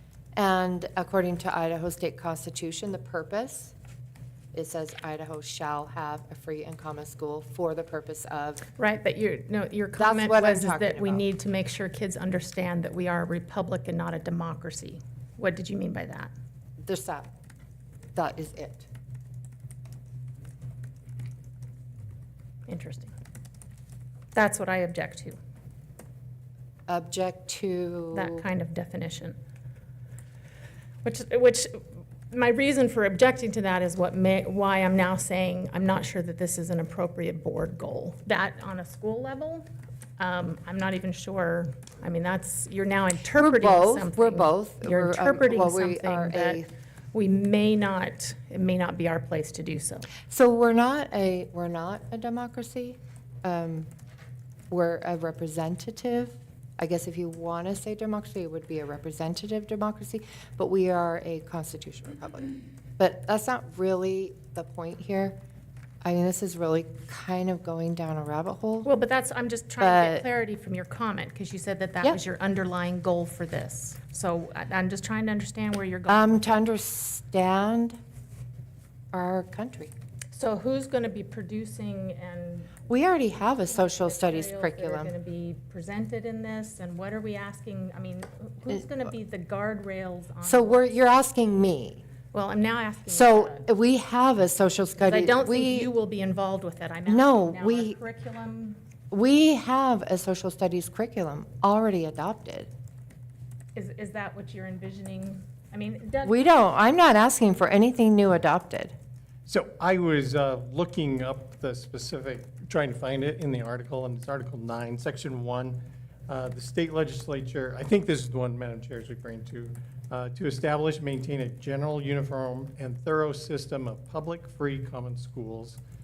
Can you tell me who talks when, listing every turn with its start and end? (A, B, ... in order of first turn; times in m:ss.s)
0:00.4-0:03.7 A
0:04.5-0:08.7 A
0:08.8-0:16.3 B
0:10.0-0:11.2 A
0:16.8-0:17.3 A
0:18.2-0:18.9 A
0:22.7-0:23.1 B
0:24.3-0:25.4 B
0:26.9-0:28.5 A
0:28.1-0:29.4 B
0:31.0-0:39.7 B
0:40.2-0:50.1 B
0:43.3-0:46.7 A
0:50.3-0:53.9 A
0:54.7-1:05.4 A
1:06.0-1:08.9 A
1:08.8-1:16.5 B
1:09.8-1:10.2 A
1:16.1-1:18.0 A
1:19.1-1:19.9 A
1:20.3-1:22.7 B
1:22.9-1:25.1 A
1:23.7-1:30.9 B
1:30.4-1:32.0 A
1:32.3-1:33.7 B
1:33.1-1:35.9 A
1:35.0-1:38.8 B
1:37.0-1:38.0 A
1:39.1-1:42.7 A
1:43.8-1:46.5 B
1:46.2-1:49.0 A
1:49.5-2:05.8 C